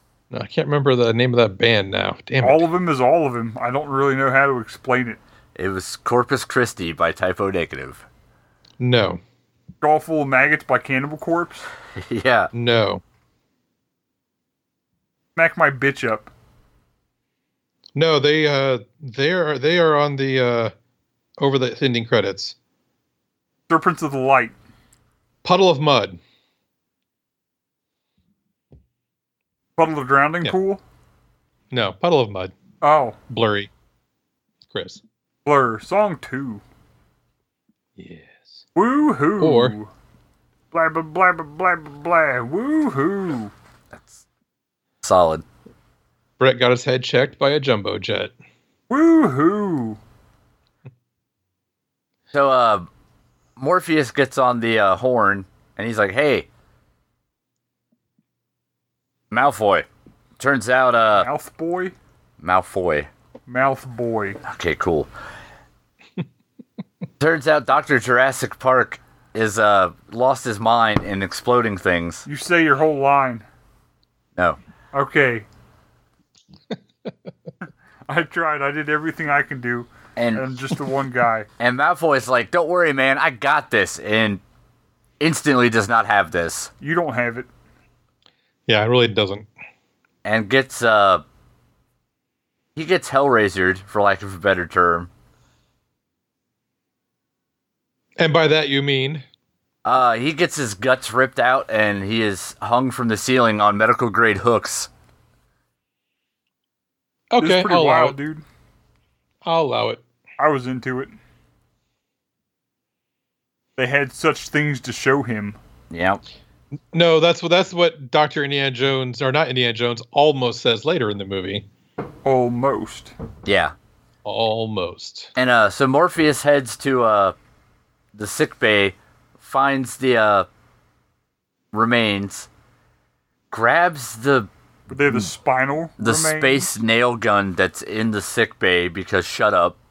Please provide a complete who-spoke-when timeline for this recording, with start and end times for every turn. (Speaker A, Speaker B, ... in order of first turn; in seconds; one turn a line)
Speaker A: 0.3-2.6
Speaker B: 2.4-5.2
Speaker C: 5.5-8.1
Speaker A: 8.8-9.2
Speaker B: 9.8-11.7
Speaker C: 12.0-12.5
Speaker A: 12.5-13.0
Speaker B: 15.3-16.3
Speaker A: 17.9-20.7
Speaker A: 21.4-22.5
Speaker B: 23.7-24.5
Speaker A: 25.4-26.2
Speaker B: 29.8-30.8
Speaker A: 31.7-32.5
Speaker B: 32.8-33.2
Speaker A: 33.3-33.7
Speaker A: 34.7-35.0
Speaker B: 35.4-36.6
Speaker A: 38.0-38.6
Speaker B: 38.8-39.9
Speaker A: 39.4-39.8
Speaker B: 40.7-43.5
Speaker C: 43.9-44.2
Speaker C: 45.0-45.4
Speaker A: 46.4-48.3
Speaker B: 48.9-50.0
Speaker C: 52.3-52.9
Speaker C: 53.6-56.5
Speaker C: 59.3-59.9
Speaker C: 60.4-61.3
Speaker B: 61.1-61.9
Speaker C: 62.4-63.1
Speaker B: 63.5-64.4
Speaker C: 64.4-65.1
Speaker C: 67.2-72.2
Speaker B: 72.2-73.4
Speaker B: 74.9-75.5
Speaker B: 78.1-81.5
Speaker C: 80.2-80.5
Speaker C: 81.6-84.4
Speaker C: 85.2-86.7
Speaker B: 86.8-87.5
Speaker A: 88.7-89.5
Speaker C: 90.2-91.2
Speaker C: 92.8-95.1
Speaker A: 98.2-99.2
Speaker C: 99.8-104.9
Speaker A: 107.3-108.2
Speaker B: 107.4-108.4
Speaker A: 109.4-110.0
Speaker B: 110.4-111.2
Speaker B: 113.8-115.6
Speaker C: 115.9-116.2
Speaker A: 116.9-121.6
Speaker B: 122.2-123.1
Speaker C: 123.5-123.7
Speaker A: 124.2-125.3
Speaker C: 125.3-127.3
Speaker C: 128.1-130.5
Speaker C: 131.7-132.5
Speaker C: 133.5-134.5
Speaker B: 134.9-136.7
Speaker C: 136.0-139.8